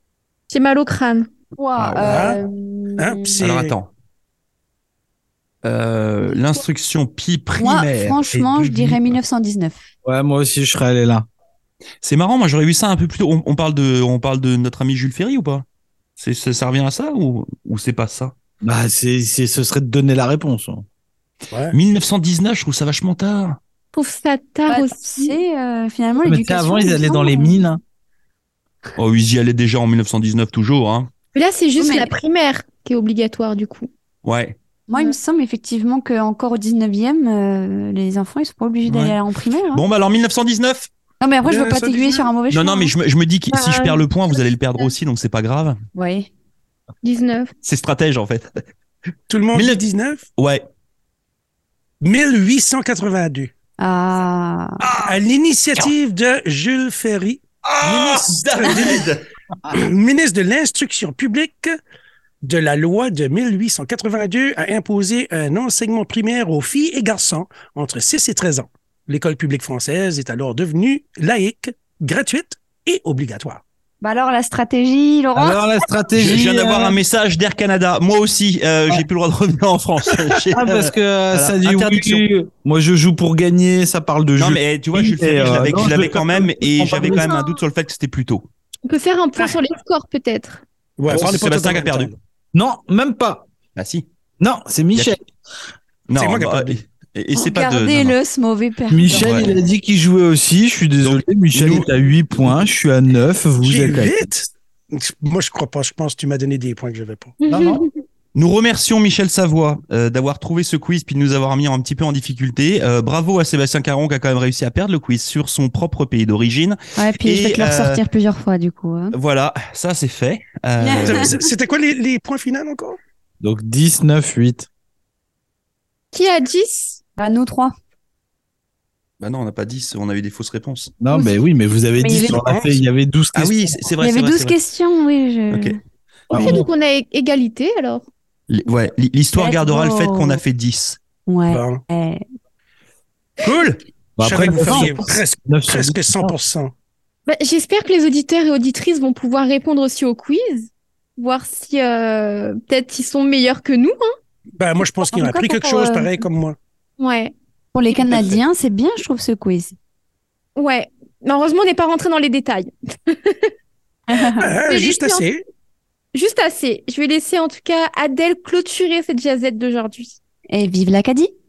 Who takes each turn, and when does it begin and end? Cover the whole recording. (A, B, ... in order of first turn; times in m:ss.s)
0:00.5-0:01.3 A
0:01.6-0:03.4 B
0:01.8-0:02.3 C
0:02.0-0:02.4 D
0:03.0-0:03.8 D
0:03.4-0:03.9 C
0:05.6-0:09.2 C
0:07.6-0:09.8 B
0:10.0-0:11.3 E
0:12.0-0:15.6 C
0:16.2-0:18.4 C
0:18.6-0:20.8 E
0:21.5-0:21.8 D
0:21.7-0:23.6 C
0:23.9-0:25.4 A
0:24.7-0:27.6 B
0:26.2-0:27.8 E
0:29.0-0:31.1 C
0:31.3-0:33.9 A
0:31.8-0:32.1 B
0:34.2-0:34.6 C
0:34.9-0:39.8 B
0:38.8-0:39.2 C
0:39.7-0:40.9 C
0:41.2-0:42.9 B
0:41.4-0:42.3 D
0:42.5-0:45.8 C
0:43.5-0:44.0 A
0:46.0-0:46.3 B
0:47.0-0:47.5 A
0:47.6-0:48.6 C
0:49.3-0:50.2 D
0:49.5-0:49.8 C
0:50.4-0:50.6 C
0:52.0-0:53.5 D
0:53.8-0:54.8 B
0:54.8-0:55.1 C
0:55.0-0:59.1 D
0:57.7-0:59.2 C
0:59.7-1:01.8 D
1:02.4-1:13.6 D
1:14.0-1:15.6 B
1:15.4-1:17.0 E
1:16.2-1:22.2 C
1:20.5-1:27.3 E
1:24.4-1:28.4 C
1:27.1-1:27.6 A
1:28.9-1:30.6 A
1:31.0-1:32.2 D
1:31.1-1:32.1 C
1:32.5-1:33.5 E
1:33.8-1:34.1 C
1:34.4-1:35.2 E
1:36.1-1:38.2 C
1:36.1-1:36.8 D
1:37.4-1:39.5 B
1:38.9-1:44.3 E
1:39.1-1:39.5 C
1:41.0-1:41.9 C
1:43.6-1:47.4 D
1:47.4-1:48.0 A
1:47.5-1:47.8 E
1:48.4-1:58.0 C
1:57.0-1:59.2 B
1:59.1-2:01.4 C
2:00.8-2:01.4 B
2:01.0-2:03.0 D
2:03.4-2:04.7 E
2:06.1-2:07.0 A
2:07.2-2:07.7 B
2:09.2-2:10.9 C
2:11.0-2:13.8 E
2:11.1-2:11.4 B
2:12.0-2:12.4 B
2:12.2-2:12.8 D
2:13.4-2:14.6 C
2:14.0-2:15.8 B
2:15.5-2:15.8 C
2:16.3-2:18.1 A
2:16.3-2:16.7 E
2:18.5-2:21.0 C
2:19.4-2:20.4 B
2:21.3-2:22.2 B
2:21.5-2:21.8 D
2:23.4-2:23.8 C
2:24.2-2:26.3 E
2:24.2-2:26.7 D
2:24.6-2:24.9 C
2:27.3-2:34.1 A
2:34.6-2:36.6 D
2:35.1-2:36.2 B
2:37.0-2:37.3 A
2:37.7-2:39.8 B
2:38.1-2:38.4 D
2:40.6-2:43.5 A
2:44.1-2:44.5 B
2:44.4-2:45.4 D
2:44.7-2:45.3 A
2:46.1-2:50.2 A
2:50.5-2:51.3 B